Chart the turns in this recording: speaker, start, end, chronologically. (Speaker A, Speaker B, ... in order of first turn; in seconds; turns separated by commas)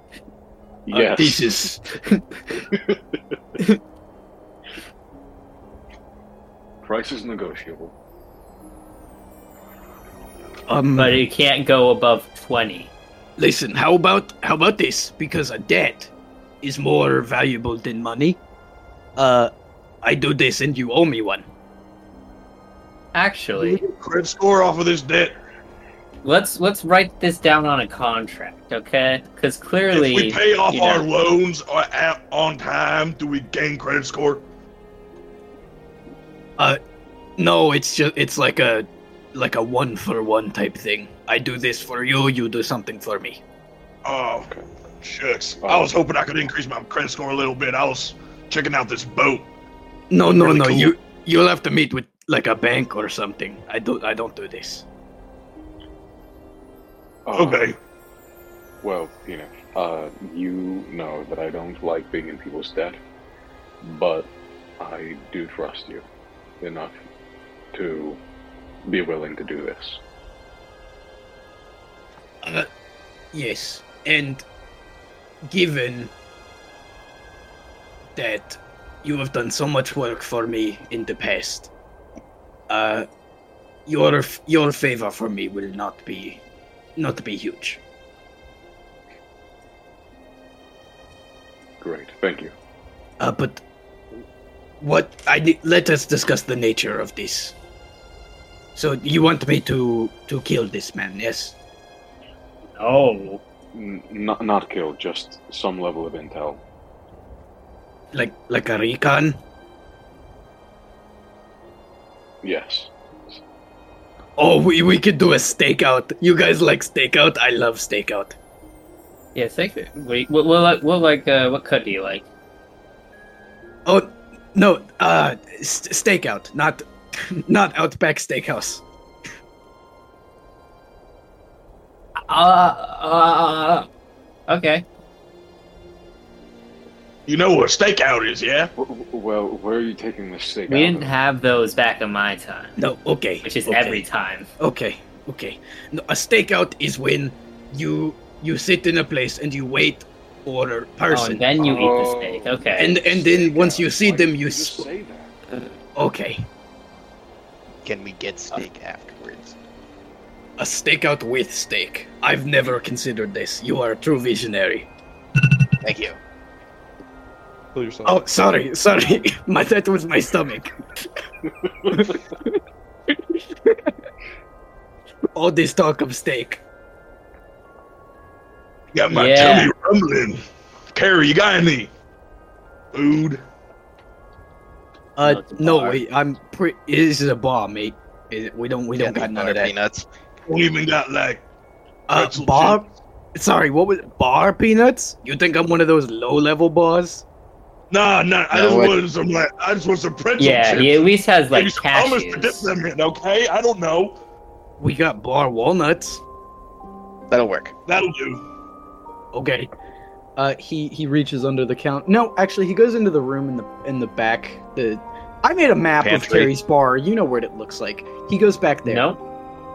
Speaker A: 0.9-1.5, Speaker B: 0.9-2.2, Speaker A: 2.7-3.0, Speaker A: 6.8-7.9, Speaker B: 10.7-11.2, Speaker C: 10.9-12.9, Speaker B: 13.4-16.1, Speaker B: 16.6-18.4, Speaker B: 19.2-19.5, Speaker B: 20.0-21.5, Speaker C: 23.1-23.8, Speaker D: 23.6-25.3, Speaker C: 26.2-31.1, Speaker D: 29.9-34.4, Speaker B: 37.4-43.4, Speaker D: 44.0-49.5, Speaker A: 45.6-46.0, Speaker B: 50.1-54.8, Speaker D: 50.3-50.9, Speaker A: 57.2-57.7, Speaker D: 57.3-57.8, Speaker A: 58.8-63.0, Speaker A: 63.8-66.0, Speaker A: 66.6-66.9, Speaker A: 67.7-68.2, Speaker A: 68.8-70.0, Speaker B: 72.4-72.7, Speaker B: 73.3-74.4, Speaker B: 75.5-76.1, Speaker B: 78.2-81.7, Speaker B: 82.7-83.1, Speaker B: 83.9-86.4, Speaker B: 87.0-87.8, Speaker A: 91.8-92.5, Speaker B: 93.2-93.6, Speaker B: 94.8-97.5, Speaker B: 98.7-101.5, Speaker C: 102.8-103.4, Speaker A: 103.7-106.6, Speaker B: 108.1-109.4, Speaker A: 112.4-113.4, Speaker B: 114.4-118.3, Speaker C: 119.3-122.2, Speaker B: 123.8-128.8, Speaker C: 132.3-133.9, Speaker C: 134.5-134.8, Speaker D: 137.3-138.7, Speaker A: 138.8-141.1, Speaker C: 140.7-142.8, Speaker B: 142.8-144.1, Speaker C: 143.4-144.5, Speaker B: 144.6-151.5, Speaker C: 151.1-153.0, Speaker A: 151.6-155.3, Speaker B: 152.8-154.9, Speaker B: 155.9-156.4, Speaker E: 157.8-159.6, Speaker B: 160.6-164.9, Speaker E: 165.8-166.2, Speaker D: 167.7-168.2, Speaker B: 168.0-170.7, Speaker B: 171.9-172.5, Speaker B: 173.3-173.9, Speaker B: 175.3-176.6, Speaker D: 178.9-180.4, Speaker C: 179.1-179.7, Speaker D: 180.9-181.9, Speaker D: 182.9-183.4, Speaker B: 185.2-189.7, Speaker C: 185.2-186.0, Speaker E: 188.9-190.1, Speaker D: 190.4-191.4, Speaker B: 192.1-197.2, Speaker D: 192.1-192.8, Speaker D: 197.9-204.2, Speaker E: 198.5-199.0, Speaker C: 200.4-202.7, Speaker B: 204.8-206.2, Speaker E: 207.3-207.7, Speaker D: 207.9-208.4, Speaker B: 209.3-209.7, Speaker B: 210.3-219.0, Speaker E: 216.0-216.5, Speaker C: 218.8-219.2